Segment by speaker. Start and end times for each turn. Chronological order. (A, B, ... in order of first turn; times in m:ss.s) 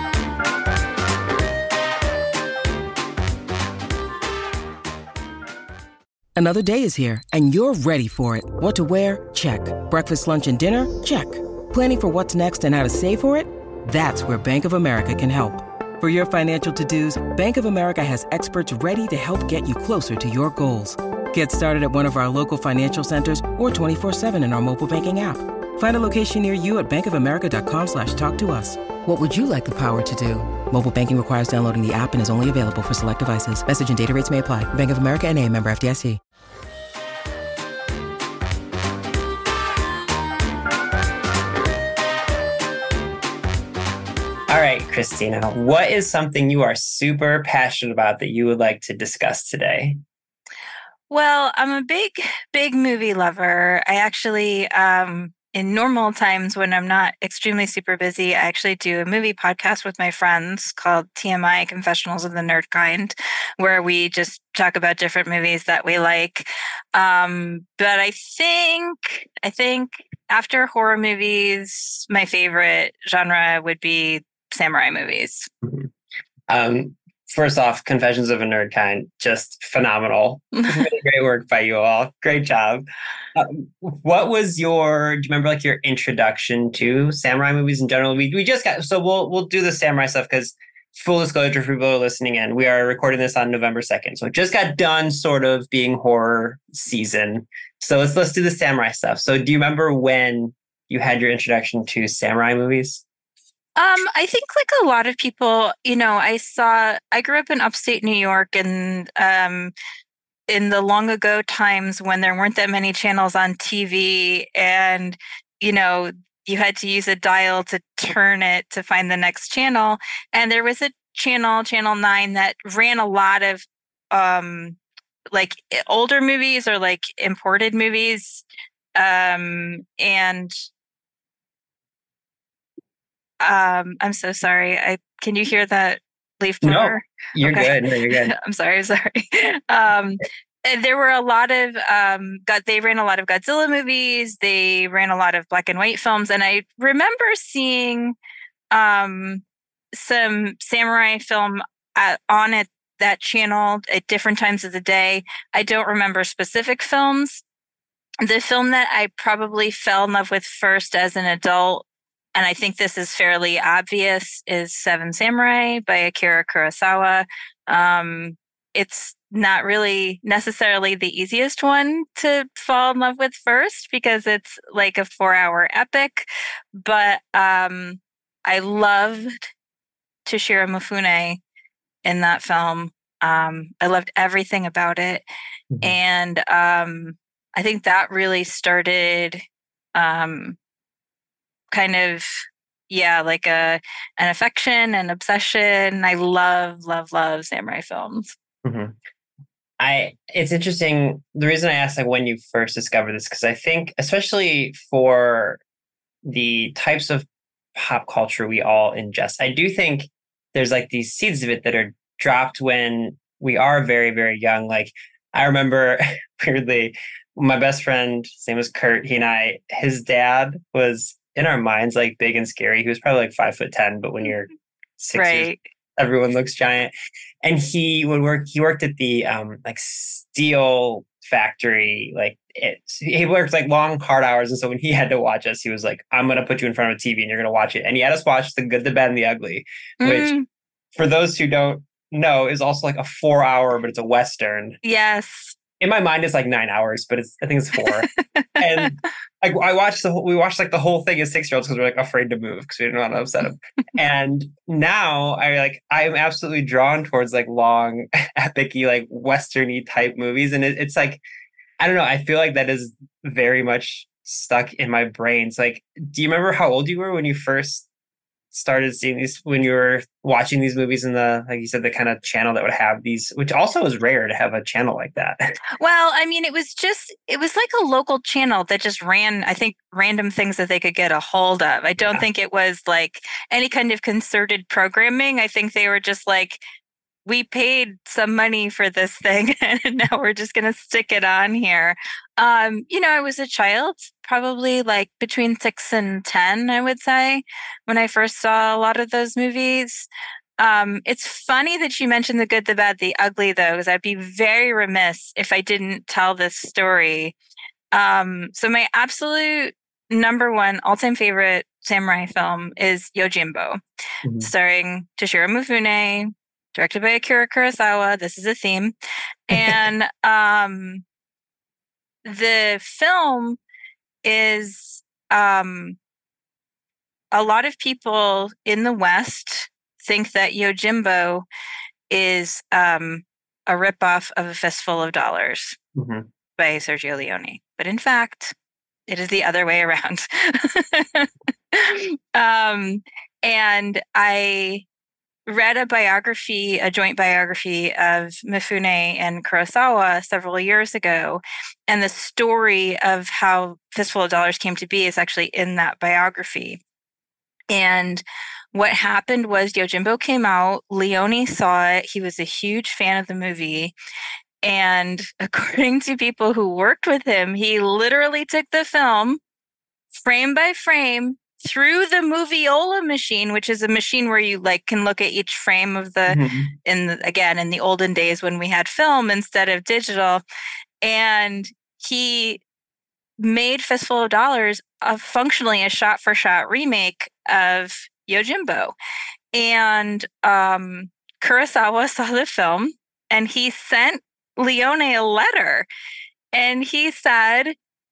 0:06.4-0:36.2 A
0:44.5-0:50.0 B
0:51.1-1:15.5 C
1:16.5-1:43.0 B
1:20.6-1:20.8 C
1:43.8-1:49.7 C
1:50.5-2:04.8 C
2:05.3-2:08.4 C
2:09.0-2:10.6 C
2:13.4-2:28.2 C
2:16.6-2:18.3 B
2:28.7-2:29.4 C
2:29.9-2:37.4 C
2:38.2-2:59.5 C
3:00.2-3:01.4 C
3:02.0-3:05.2 C
3:05.8-3:09.4 C
3:09.9-3:10.6 C
3:11.7-3:18.3 C
3:18.6-3:19.0 B
3:19.8-3:25.6 B
3:26.2-4:00.3 B
3:45.1-3:45.7 C
4:00.0-4:00.4 C
4:00.9-4:04.8 B
4:04.8-4:05.5 C
4:05.8-4:21.2 B
4:07.8-4:08.9 C
4:21.8-4:27.8 B
4:28.5-4:35.6 B
4:35.8-4:46.6 C
4:47.2-5:07.3 C
5:07.9-5:13.8 C
5:14.2-5:14.5 B
5:14.4-5:18.9 C
5:19.5-5:21.0 C
5:22.2-5:23.6 C
5:24.2-5:26.0 C
5:27.3-5:31.4 C
5:32.1-5:35.8 C
5:35.9-5:36.2 B
5:36.6-5:38.5 C
5:39.1-5:44.8 C
5:45.5-5:56.8 C
5:57.7-6:03.9 C
6:04.6-6:09.4 C
6:10.1-6:20.4 C
6:16.3-6:16.7 B
6:21.0-6:22.6 C
6:23.4-6:28.9 C
6:29.5-6:35.9 C
6:36.5-6:37.8 C